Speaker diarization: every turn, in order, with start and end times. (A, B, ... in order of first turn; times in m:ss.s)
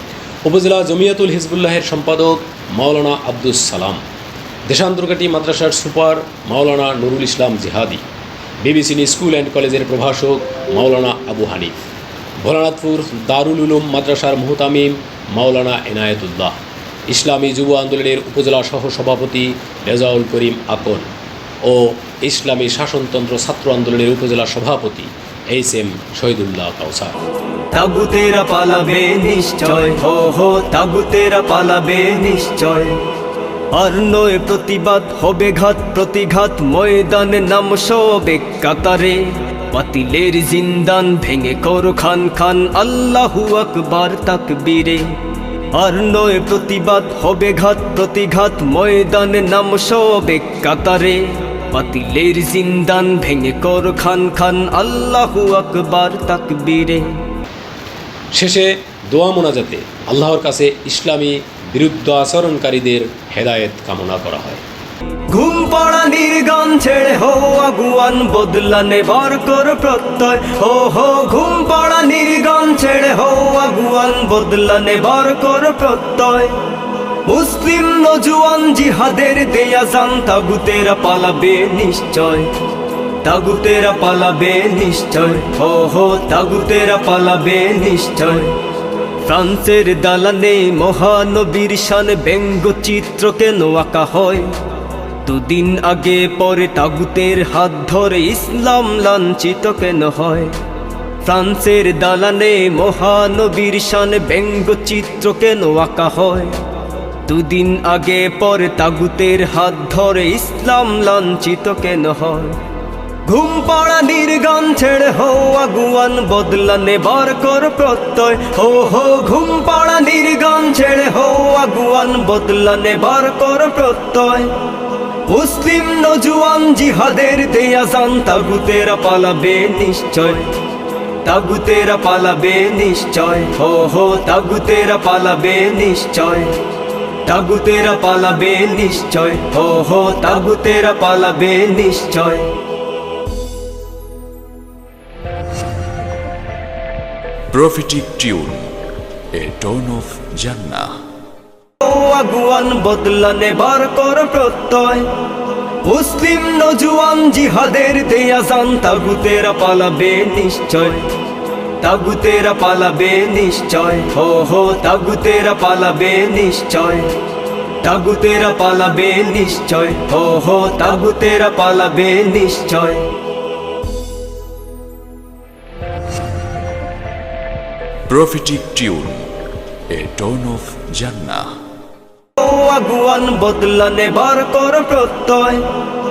0:00.4-0:04.0 A
0:04.7-0:08.0 A
0:08.6-0:11.7 A
0:12.4-0:16.5 A
0:17.1-0:21.0 A
0:21.6-0:27.2 A
0:27.7-0:33.0 B
0:33.7-0:45.2 B
0:45.7-0:57.1 B
0:58.3-1:04.6 A
1:05.3-1:16.6 B
1:17.3-1:22.5 B
1:23.2-1:28.6 B
1:29.2-1:34.5 B
1:35.2-1:40.5 B
1:41.2-1:46.6 B
1:47.3-1:52.6 B
1:53.3-2:04.5 B
2:05.3-2:10.5 B
2:11.2-2:16.6 B
2:17.2-2:22.5 B
2:27.5-2:28.8 C
2:29.3-2:30.9 C
2:31.8-2:35.1 B
2:35.8-2:41.1 B
2:41.8-2:47.1 B
2:47.8-2:53.1 B
2:58.1-2:59.3 C
2:59.9-3:01.5 C
3:02.4-3:05.7 B